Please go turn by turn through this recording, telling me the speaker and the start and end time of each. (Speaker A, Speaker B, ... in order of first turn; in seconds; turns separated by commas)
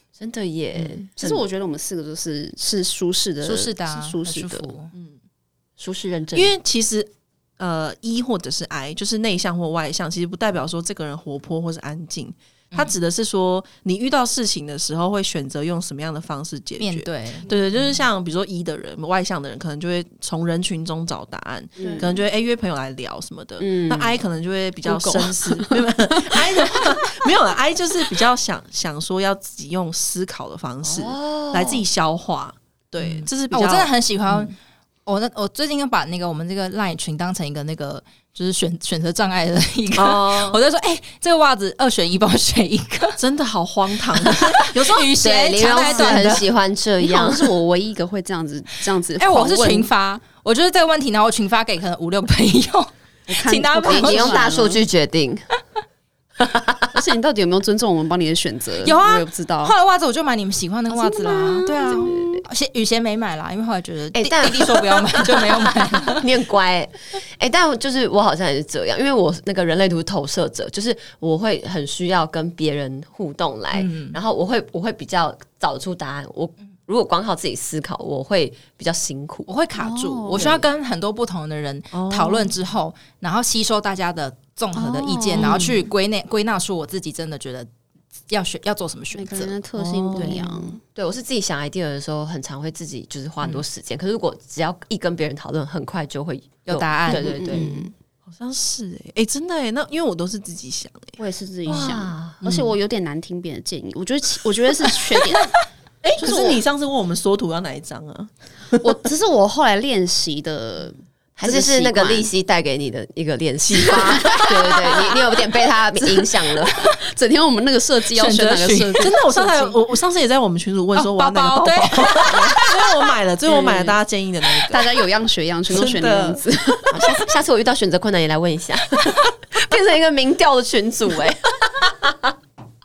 Speaker A: 0.2-1.3, Speaker B: 1.2-4.7, Speaker C: 3.4-4.9, Speaker A: 5.8-6.5, Speaker D: 6.3-34.5, Speaker C: 16.8-17.5, Speaker A: 21.8-22.1, Speaker B: 21.8-22.1, Speaker A: 23.6-24.2, Speaker B: 24.9-26.9, Speaker A: 30.9-31.9, Speaker C: 33.5-34.5, Speaker C: 35.1-43.2, Speaker D: 39.9-40.6, Speaker D: 43.2-46.2, Speaker C: 44.1-46.5, Speaker A: 45.2-47.5, Speaker B: 47.0-49.9, Speaker C: 49.2-54.5, Speaker B: 53.3-54.8, Speaker A: 53.9-55.5, Speaker A: 56.4-56.9, Speaker B: 56.9-59.7, Speaker C: 58.8-66.2, Speaker B: 61.0-62.1, Speaker A: 61.6-62.4, Speaker A: 64.1-79.5, Speaker C: 73.7-74.2, Speaker C: 79.5-87.7, Speaker B: 79.8-80.5, Speaker A: 80.3-80.7, Speaker D: 81.9-82.5, Speaker B: 84.8-85.7, Speaker D: 85.4-85.9, Speaker C: 88.3-89.5, Speaker B: 89.1-90.8, Speaker D: 89.8-90.4, Speaker A: 91.0-97.9, Speaker C: 96.7-97.6, Speaker B: 97.1-97.9, Speaker D: 98.3-101.2, Speaker B: 101.2-105.6, Speaker A: 101.7-102.4, Speaker D: 102.4-102.7, Speaker D: 106.0-109.0, Speaker B: 106.2-106.6, Speaker B: 108.8-112.3, Speaker A: 111.4-116.8, Speaker D: 113.7-114.8, Speaker B: 113.8-115.2, Speaker B: 116.0-119.8, Speaker C: 118.1-119.1, Speaker D: 119.0-125.0, Speaker C: 121.0-123.0, Speaker B: 123.6-123.9, Speaker B: 124.6-127.3, Speaker D: 125.7-126.4, Speaker A: 126.9-132.3